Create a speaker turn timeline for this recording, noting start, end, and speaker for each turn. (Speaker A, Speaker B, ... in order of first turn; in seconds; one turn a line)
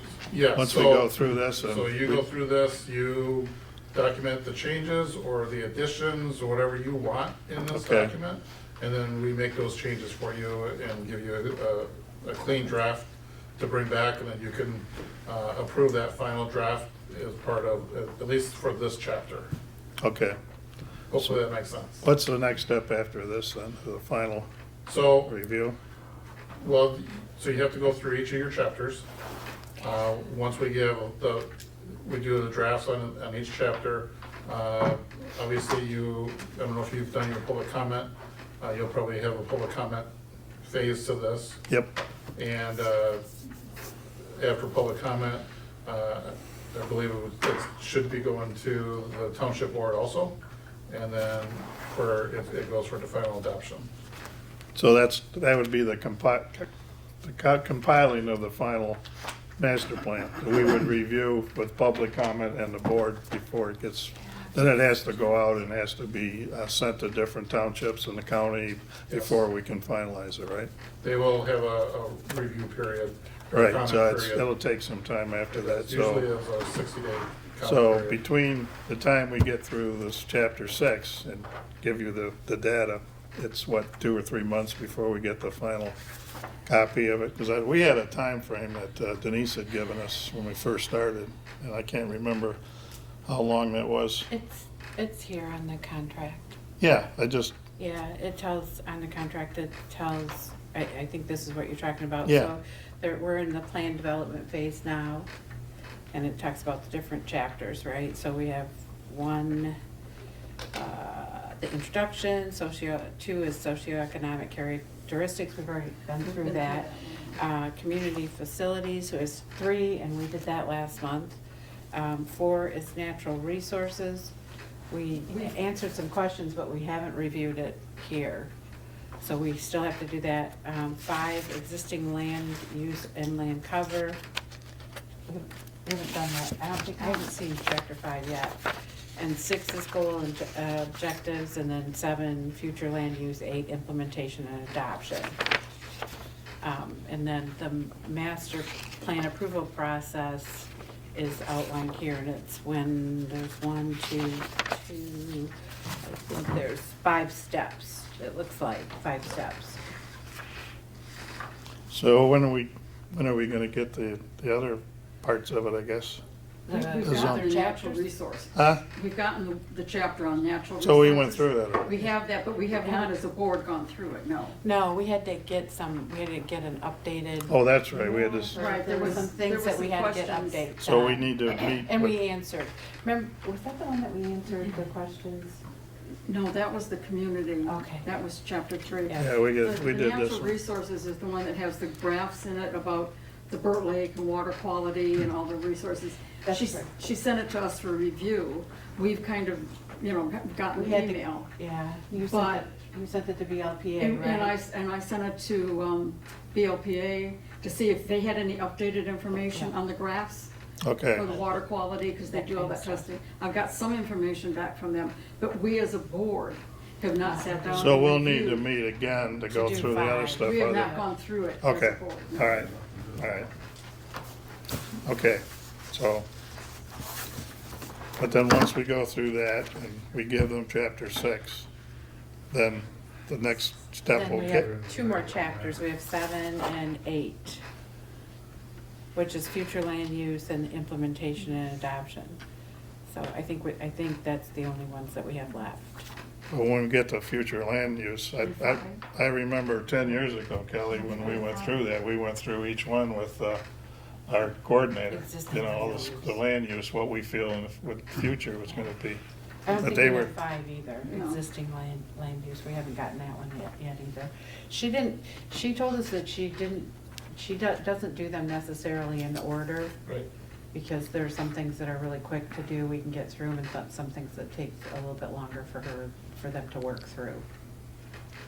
Speaker A: 0.3-19.5
Speaker B: 0.5-2.2
Speaker B: 7.7-8.1
Speaker B: 20.0-20.4
Speaker A: 21.1-22.0
Speaker B: 22.0-24.5
Speaker A: 24.9-25.3
Speaker B: 25.2-25.8
Speaker A: 26.6-29.1
Speaker A: 29.8-40.1
Speaker A: 40.6-41.6
Speaker A: 42.3-43.3
Speaker A: 44.4-50.4
Speaker A: 50.9-53.9
Speaker B: 54.7-56.7
Speaker B: 57.2-59.0
Speaker B: 59.6-70.7
Speaker A: 71.0-74.4
Speaker B: 73.5-76.3
Speaker A: 75.5-78.2
Speaker B: 77.6-86.0
Speaker B: 86.7-92.6
Speaker B: 93.2-94.3
Speaker C: 94.3-96.6
Speaker B: 96.8-97.5
Speaker C: 97.8-105.3
Speaker B: 102.2-102.5
Speaker C: 106.1-109.8
Speaker C: 110.7-121.4
Speaker D: 116.2-117.3
Speaker C: 121.9-124.3
Speaker C: 124.9-128.5
Speaker D: 125.3-125.5
Speaker C: 129.2-134.2
Speaker C: 135.3-138.6
Speaker D: 137.0-137.3
Speaker C: 139.2-145.4
Speaker C: 146.6-159.8
Speaker B: 161.9-166.2
Speaker C: 166.7-168.0
Speaker D: 166.7-174.6
Speaker B: 167.0-167.5
Speaker B: 168.5-168.8
Speaker B: 170.8-172.1
Speaker C: 172.8-173.1
Speaker C: 174.6-185.6
Speaker B: 177.5-178.6
Speaker D: 178.5-180.7
Speaker B: 180.8-182.2
Speaker D: 186.2-201.5
Speaker C: 187.7-188.1
Speaker B: 189.1-190.5
Speaker C: 196.4-196.9
Speaker C: 200.7-204.5
Speaker D: 202.2-202.7
Speaker D: 204.0-210.5
Speaker B: 210.8-211.3
Speaker D: 211.1-218.7
Speaker C: 211.2-211.5
Speaker C: 212.3-213.1
Speaker C: 217.2-217.9
Speaker B: 217.7-220.9
Speaker C: 219.5-221.1
Speaker D: 220.4-222.6
Speaker B: 221.6-223.5
Speaker B: 225.0-226.2
Speaker B: 228.2-231.7
Speaker B: 232.5-234.7
Speaker C: 234.1-237.6
Speaker A: 234.5-235.8
Speaker C: 239.1-242.4
Speaker C: 243.1-246.1
Speaker B: 246.5-253.6
Speaker D: 248.6-249.0
Speaker D: 251.2-251.4
Speaker B: 254.3-259.2
Speaker C: 255.1-256.4
Speaker C: 259.6-269.9
Speaker B: 259.7-260.3
Speaker D: 261.1-261.4
Speaker C: 270.7-277.4